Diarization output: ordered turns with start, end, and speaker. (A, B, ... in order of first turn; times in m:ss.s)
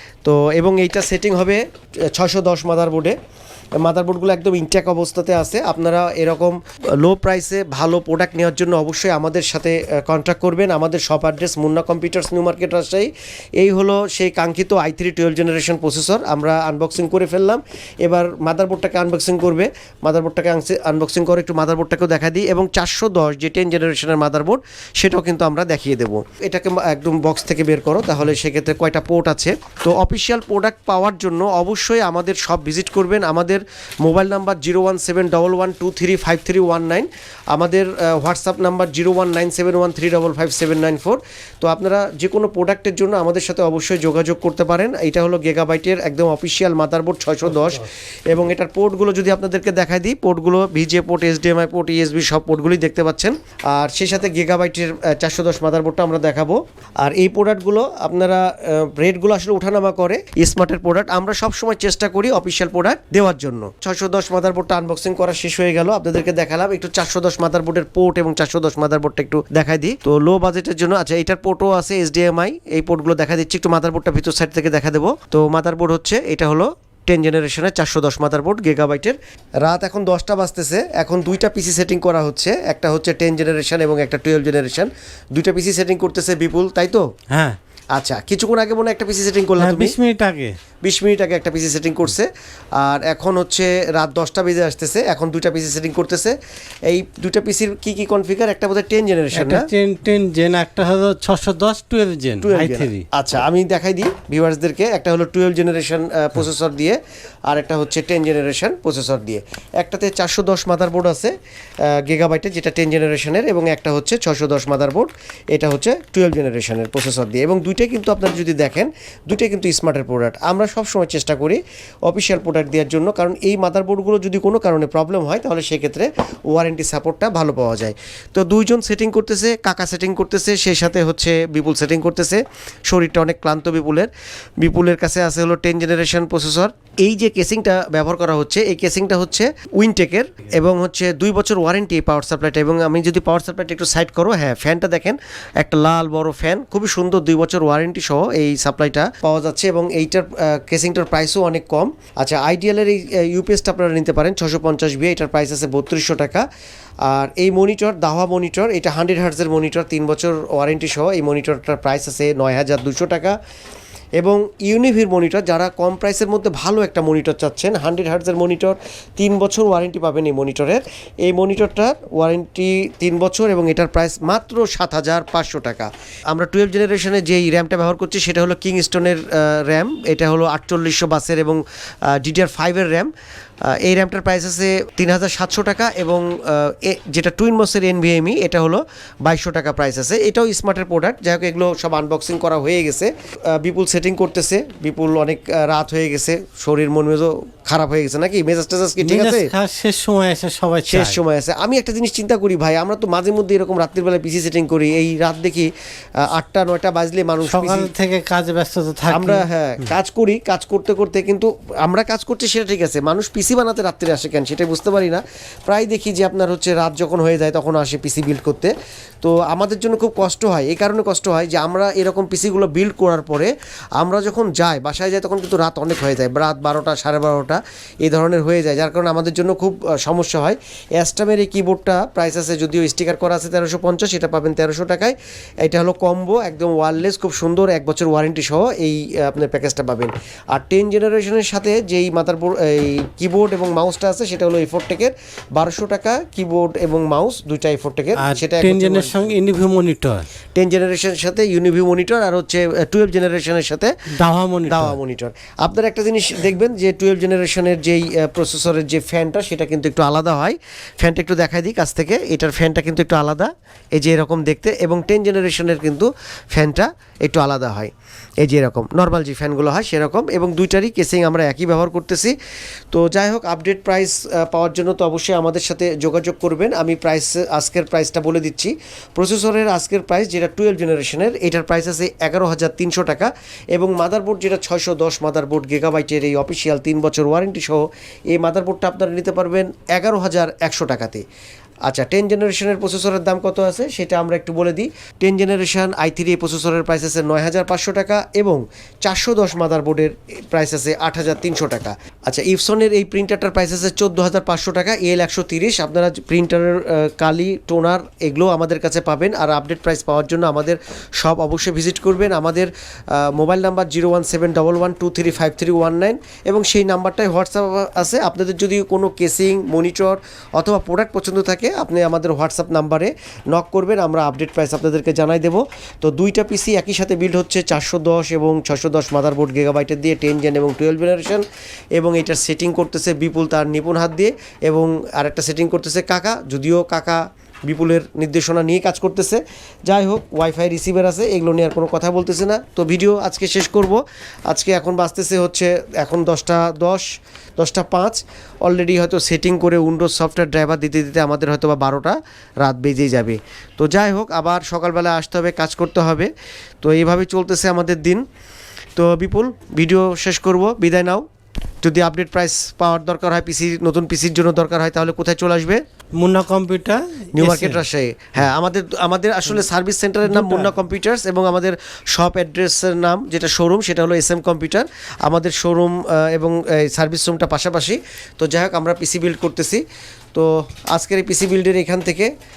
0:00.2-0:03.2 A
0:03.8-1:27.0 A
1:27.3-1:27.6 B
1:27.9-1:30.0 A
1:29.6-1:30.5 B
1:30.8-1:39.7 A
1:39.3-1:43.1 B
1:42.4-1:51.3 A
1:51.9-2:14.1 A
2:14.6-2:36.5 A
2:37.0-2:43.4 A
2:44.2-3:03.1 A
3:03.7-3:19.5 A
3:19.0-3:21.2 B
3:20.9-3:25.7 A
3:26.2-3:27.9 A
3:27.4-3:29.4 B
3:29.1-4:09.3 A
4:08.2-4:10.3 B
4:10.6-4:13.9 A
4:14.1-4:15.0 B
4:14.7-4:27.9 A
4:28.4-4:32.3 A
4:32.9-4:51.2 A
4:51.9-5:31.4 A
5:32.0-5:47.1 A
5:47.6-5:56.3 A
5:56.8-5:58.2 A
5:59.0-6:01.2 A
6:01.8-6:05.8 A
6:06.2-6:07.8 B
6:07.4-6:19.8 A
6:10.2-6:10.7 B
6:20.3-6:22.3 A